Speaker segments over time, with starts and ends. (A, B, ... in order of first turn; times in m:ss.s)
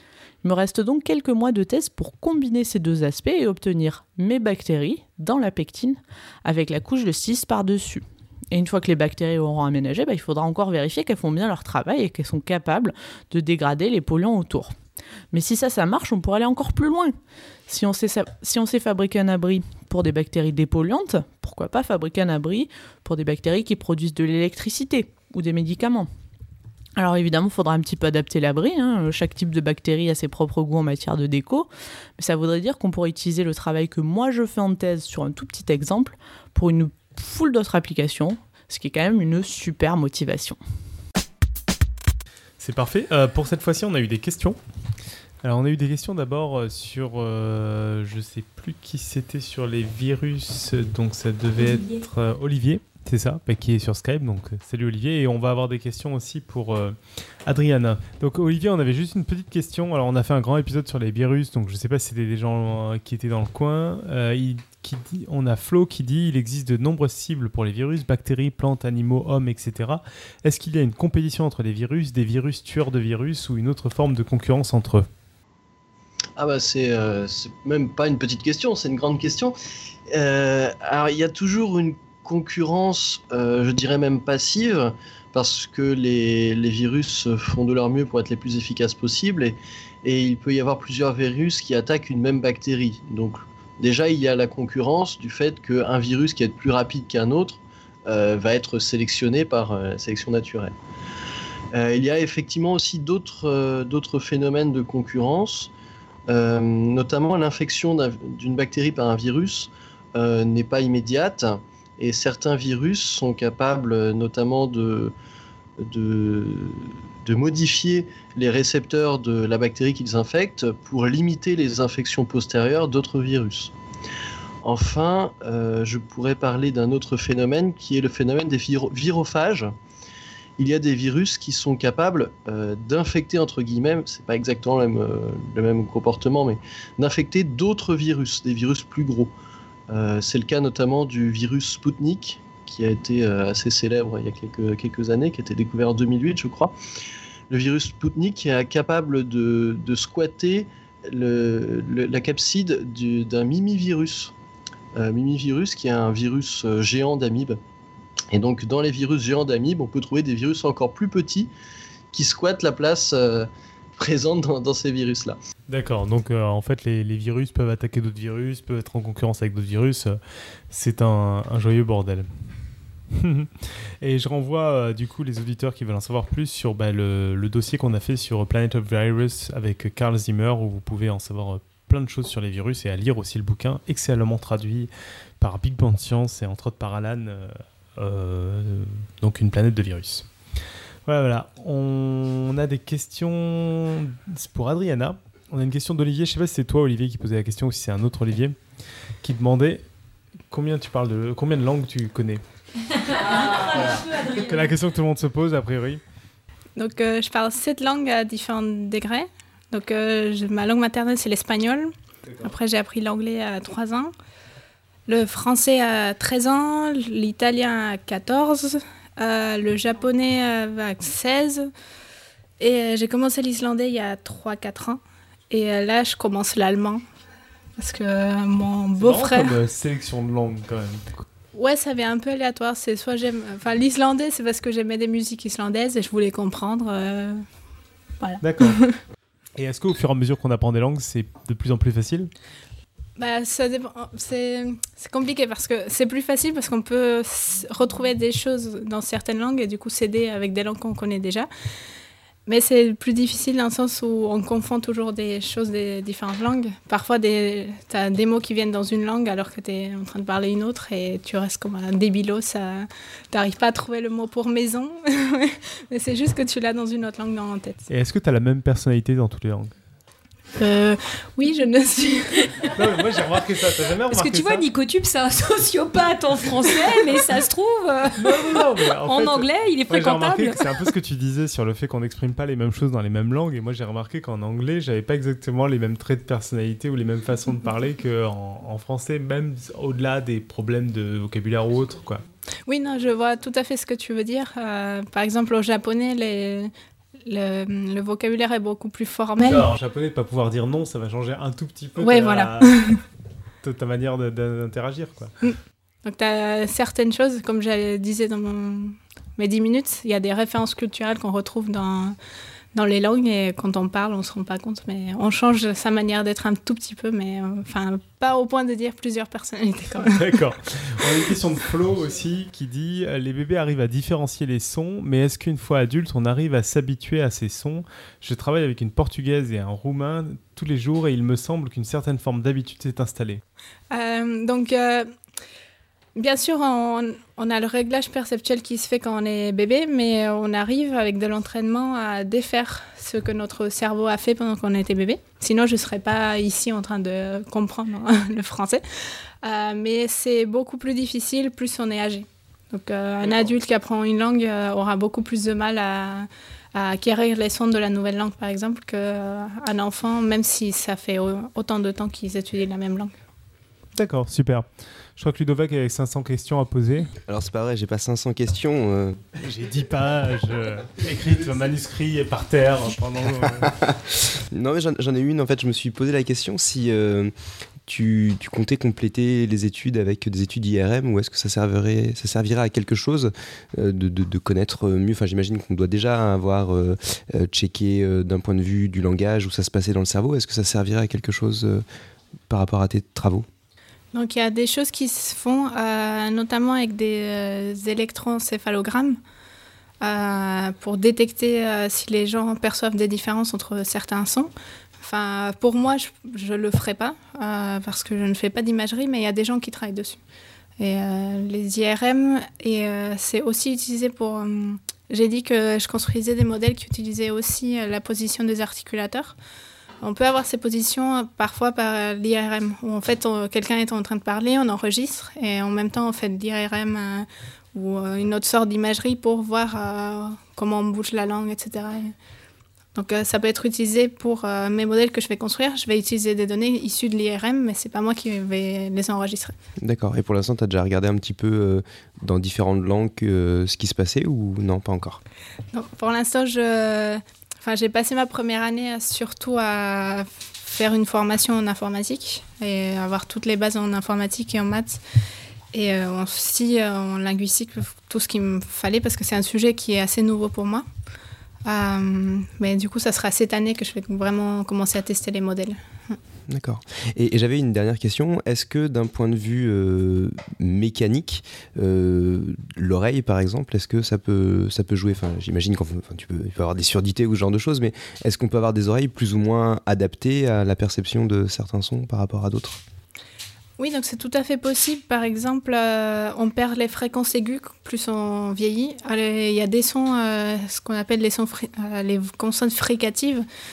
0:00.4-0:14.7 A
0:15.3-0:17.1 A
0:17.7-0:26.1 A
0:27.0-0:40.6 A
0:42.6-0:44.6 B
0:45.4-1:15.1 B
0:51.6-0:52.0 C
1:16.4-1:19.5 D
1:20.1-1:40.7 D
1:41.7-1:45.7 D
1:46.3-1:55.1 D
1:55.8-2:03.7 D
2:04.6-2:09.7 D
2:10.6-2:19.3 D
2:19.9-2:26.7 D
2:27.5-2:34.3 D
2:34.9-2:37.6 D
2:38.3-2:41.5 D
2:42.1-2:45.4 D
2:45.7-2:50.2 B
2:50.7-2:52.3 B
2:53.1-3:10.3 B
3:11.0-3:18.6 B
3:19.2-3:19.8 B
3:20.5-3:22.4 B
3:23.1-3:24.7 C
3:23.1-3:26.0 B
3:26.8-3:31.9 E
3:32.4-3:34.1 E
3:35.1-3:41.7 E
3:42.6-3:47.0 E
3:47.8-3:49.6 E
3:49.0-3:51.2 B
3:51.5-3:57.4 E
3:58.2-3:59.0 E
3:58.4-3:58.8 B
3:59.6-4:02.3 B
4:03.2-4:11.5 E
4:12.5-4:27.8 E
4:27.9-4:29.7 B
4:30.6-4:32.5 E
4:32.6-4:34.6 B
4:34.1-4:40.6 C
4:38.2-4:52.2 B
4:52.7-4:56.7 E
4:57.2-4:59.7 E
4:59.4-5:02.8 B
5:02.0-5:03.0 E
5:03.6-5:05.3 B
5:05.4-5:12.2 E
5:12.7-5:20.3 E
5:20.0-5:33.4 B
5:33.9-5:35.1 E
5:36.2-5:48.8 E
5:49.4-6:03.1 E
6:03.9-6:07.1 B
6:07.2-6:09.2 F
6:09.4-6:13.7 B
6:13.6-6:13.9 F
6:14.5-6:17.3 F
6:17.9-6:31.8 F
6:32.5-6:33.5 F
6:34.1-6:39.2 E
6:40.0-6:50.2 E
6:50.8-6:59.4 E
7:00.0-7:12.1 E
7:12.9-7:19.5 E
7:19.8-7:25.2 F
7:25.7-7:35.0 E
7:35.7-7:40.8 E
7:41.6-7:46.2 E
7:46.5-8:02.8 F
8:03.8-8:13.4 E